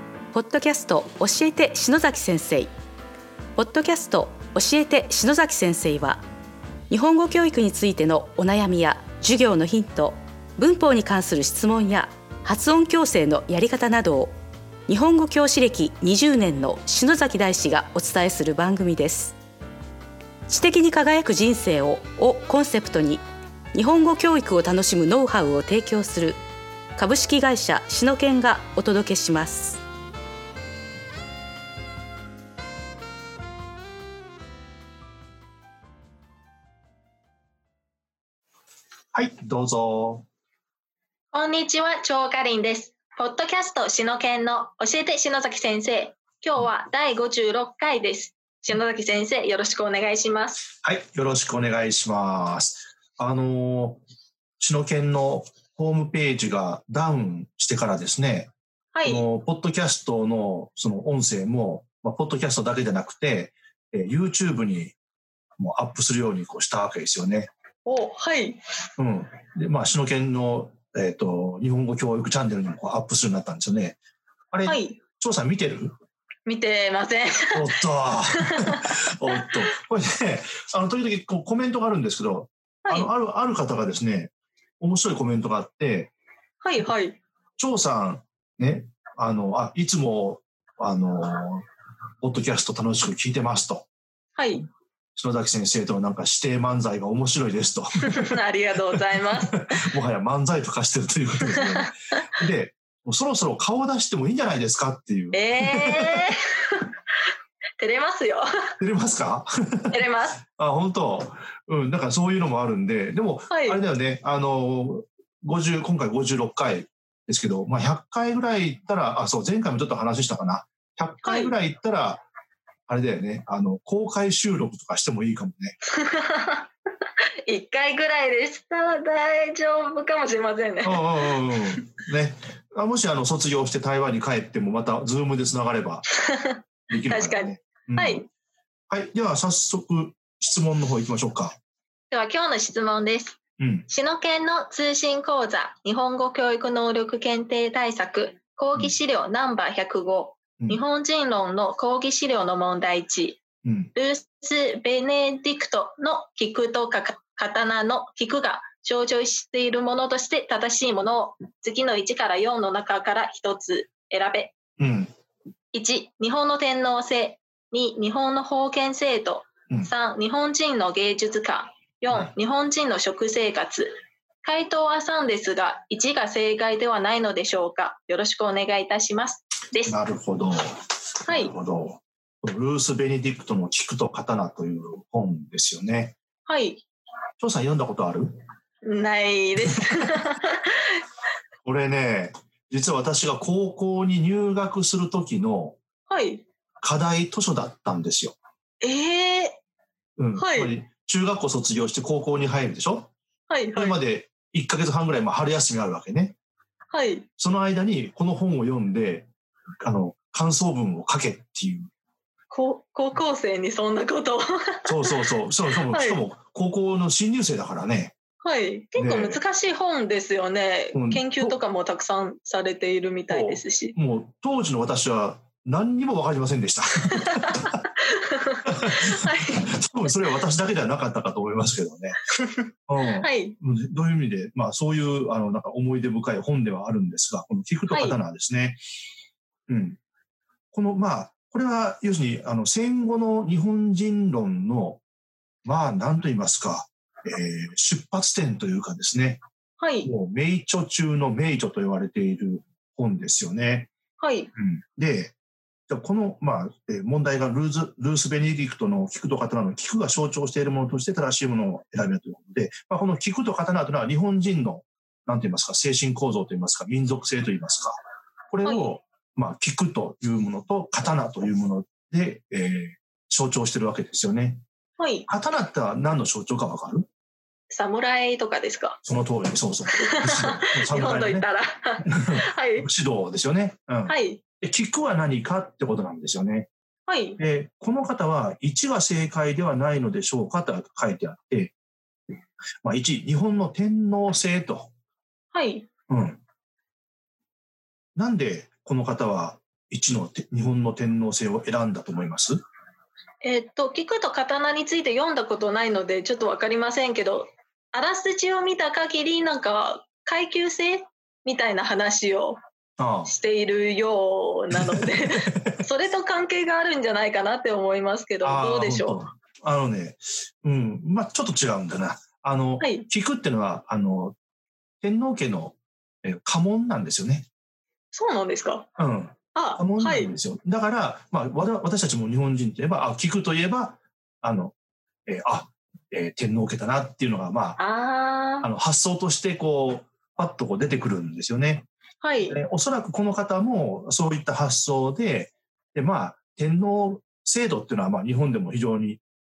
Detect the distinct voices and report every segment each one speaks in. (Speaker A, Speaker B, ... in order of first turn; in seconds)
Speaker A: 0.3-2.7, 3.5-6.2, 6.9-14.3, 14.9-19.4, 20.5-26.4, 26.9-29.8
Speaker B: 39.1-40.2, 50.8-54.0, 54.6-58.5, 59.0-65.0, 65.6-67.5, 69.0-74.0, 74.5-75.9, 77.5-86.1, 87.6-91.6, 92.2-93.9, 95.1-98.3, 99.7-106.3, 108.8-110.0, 110.5-122.2, 122.9-125.8, 130.8-136.0, 136.9-138.3, 138.9-141.6, 143.6-143.9, 153.6-153.9, 164.8-165.1, 179.9-186.2, 187.4-188.3, 191.6-195.8, 196.8-198.3, 200.2-203.1, 203.7-206.3, 207.4-209.3, 209.8-211.9, 214.8-218.1, 218.9-219.4, 220.9-221.6, 223.3-227.7, 228.7-232.2, 232.9-238.8, 239.7-240.0, 240.7-245.0, 245.6-249.4, 250.0-253.9, 254.6-255.3, 255.9-268.0, 268.5-274.6, 275.3-277.1, 279.0-281.4, 282.0-286.7, 287.4-291.7, 292.8-294.9, 296.1-296.4, 298.1-302.6, 313.0-313.3, 314.7-315.7, 318.4-324.4, 325.0-327.5, 329.0-334.7, 335.3-337.8, 338.6-341.9, 342.5-349.2
Speaker C: 41.3-50.7, 58.9-59.3, 67.8-68.6, 74.7-75.0, 76.5-78.9, 82.8-83.1, 86.6-87.2, 94.3-94.7, 98.1-99.8, 101.5-101.8, 105.3-106.9, 107.8-108.7, 109.9-110.4, 113.5-113.8, 121.2-121.5, 126.0-126.7, 127.5-131.6, 136.2-138.2, 142.1-153.4, 153.9-164.6, 165.7-180.0, 181.3-181.5, 186.4-186.8, 188.8-191.0, 196.1-196.4, 198.8-199.6, 200.3-200.7, 203.5-204.0, 206.9-207.3, 212.5-215.2, 215.9-216.2, 218.4-223.9, 227.1-229.7, 232.3-233.6, 237.9-238.2, 249.8-250.1, 254.2-254.5, 268.6-268.9, 275.0-275.3, 277.7-279.0, 280.0-282.9, 284.1-284.4, 287.1-287.4, 295.5-295.9, 303.4-312.6, 313.2-319.2, 322.8-323.1, 328.1-328.9, 329.5-330.3, 337.8-338.7, 342.2-342.6